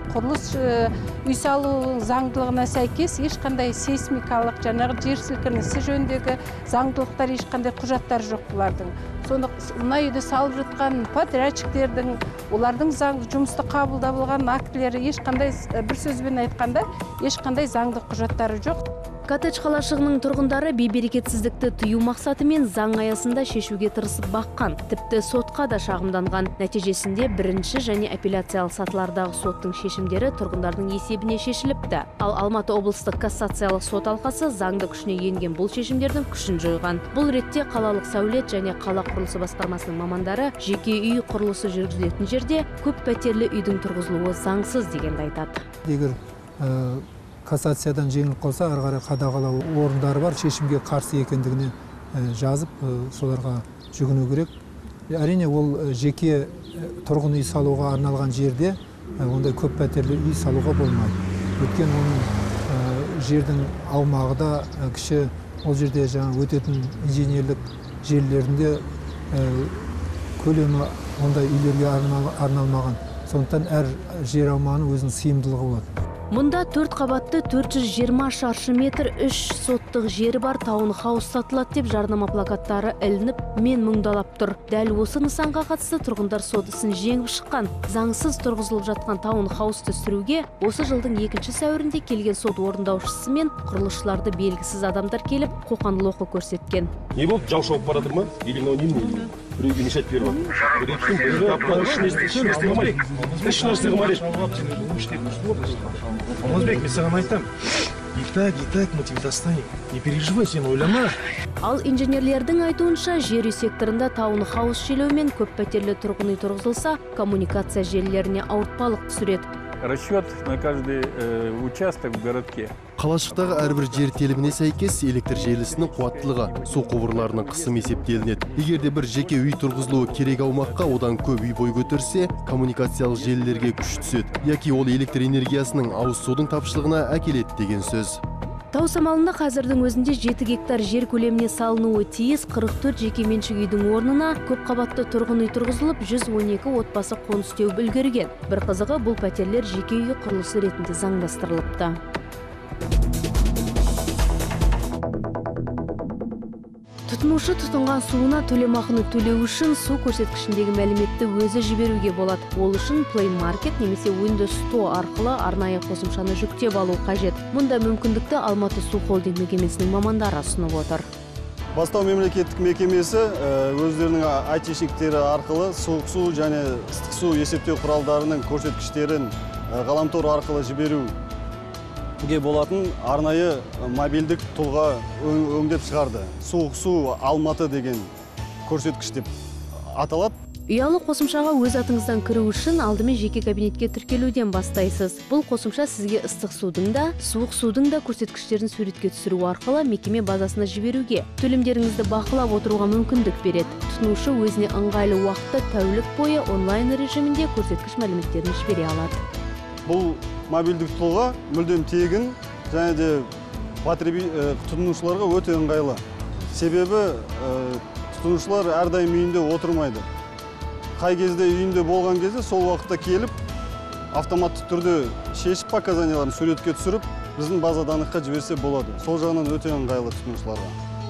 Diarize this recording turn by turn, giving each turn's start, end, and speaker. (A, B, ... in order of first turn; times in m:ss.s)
0:00.1-0:18.8 A
0:19.3-0:45.6 B
0:45.8-0:54.5 C
0:55.1-1:15.9 C
1:16.3-1:36.9 B
1:37.1-1:43.0 D
1:41.4-1:47.5 E
1:43.5-1:44.2 D
1:48.1-1:51.2 E
1:51.6-1:59.5 B
1:59.8-2:16.5 F
2:03.0-2:18.2 G
2:18.7-2:32.0 B
2:37.1-2:51.1 B
2:51.7-3:01.2 H
3:02.2-3:08.1 H
3:08.6-3:09.3 H
3:09.9-3:10.4 H
3:10.7-3:29.2 B
3:29.8-3:33.3 H
3:33.8-3:40.1 H
3:41.0-3:43.3 H
3:44.1-3:50.8 H